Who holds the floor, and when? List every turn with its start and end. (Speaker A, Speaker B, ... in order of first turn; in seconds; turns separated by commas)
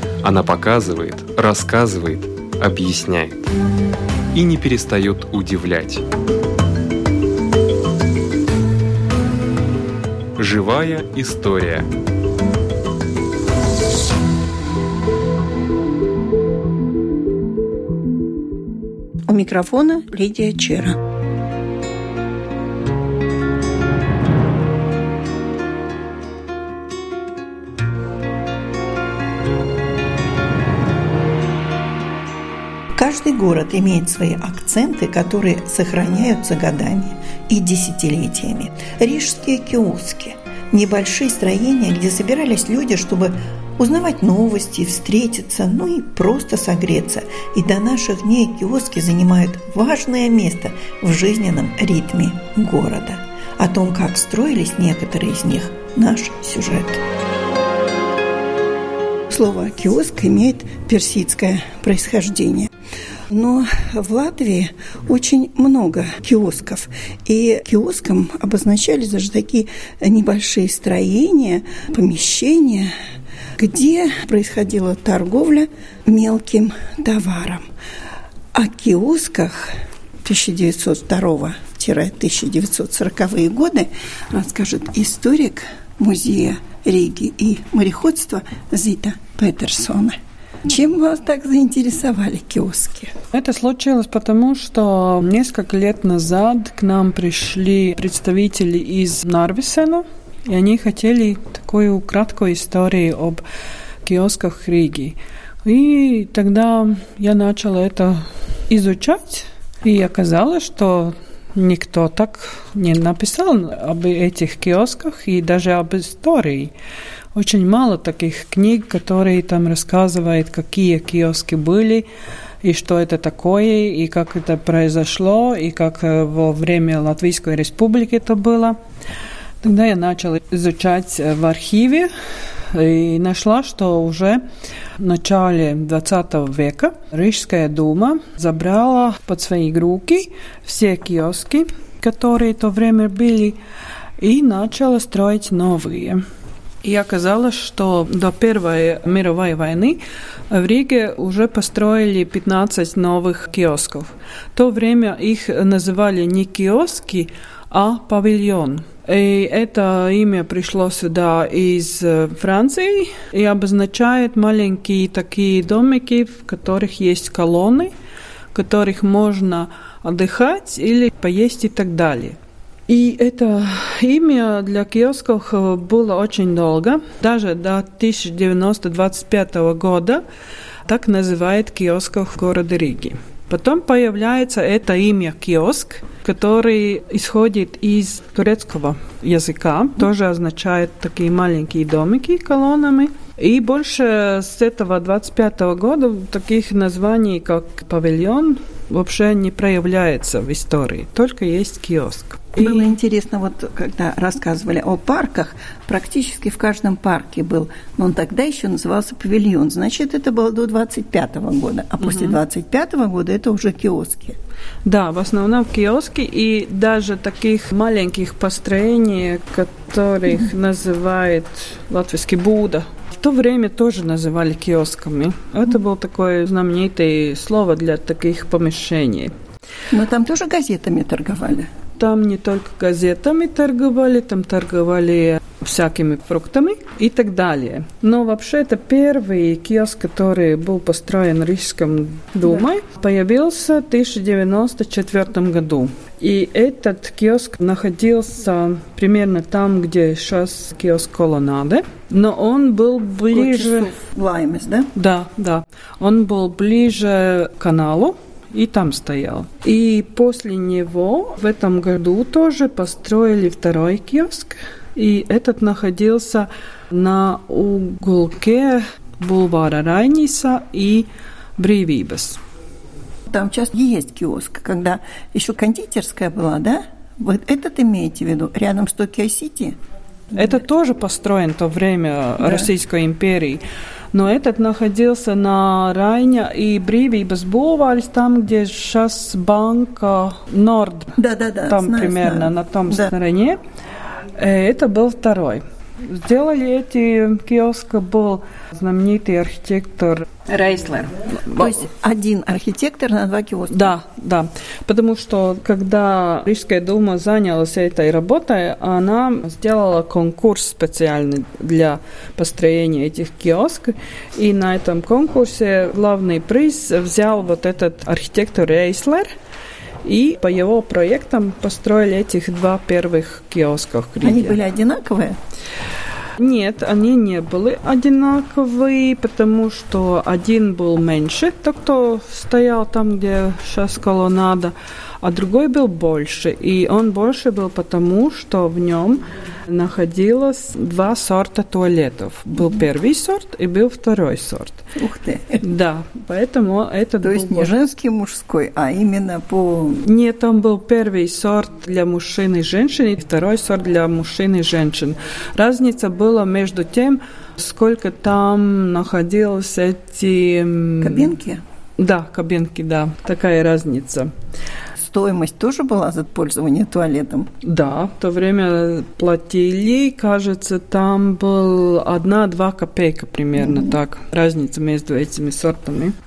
Speaker A: 0.2-3.4, Speaker A: 4.3-6.0, Speaker A: 10.4-11.9, Speaker B: 19.3-21.0, Speaker B: 33.0-57.0, Speaker B: 59.3-62.7, Speaker B: 63.3-72.9, Speaker B: 73.6-77.6, Speaker B: 78.5-79.7, Speaker B: 80.2-93.1, Speaker C: 93.3-103.4, Speaker C: 104.0-116.7, Speaker C: 117.3-122.1, Speaker C: 122.6-128.8, Speaker C: 129.6-132.1, Speaker C: 132.7-134.4, Speaker C: 135.0-143.6, Speaker C: 144.2-146.2, Speaker C: 146.8-167.9, Speaker C: 168.5-172.4, Speaker C: 172.9-180.2, Speaker C: 180.9-202.9, Speaker B: 202.6-214.4, Speaker C: 212.0-212.4, Speaker C: 214.9-229.3, Speaker B: 229.9-231.7, Speaker C: 232.0-253.9, Speaker B: 253.3-254.9, Speaker C: 254.9-272.4, Speaker B: 273.3-279.8, Speaker C: 280.3-283.6, Speaker B: 282.4-282.7, Speaker C: 284.1-291.1, Speaker B: 291.2-293.1, Speaker C: 291.7-293.6, Speaker C: 294.4-301.8, Speaker B: 301.5-303.9, Speaker C: 303.7-319.3, Speaker C: 320.0-324.6, Speaker B: 324.2-325.4, Speaker C: 326.4-344.8, Speaker B: 344.9-345.6, Speaker C: 345.6-347.7, Speaker B: 347.2-350.0, Speaker C: 350.0-361.3, Speaker B: 361.0-361.6, Speaker C: 362.0-364.3, Speaker B: 365.0-367.5, Speaker C: 367.6-376.1, Speaker B: 373.6-373.9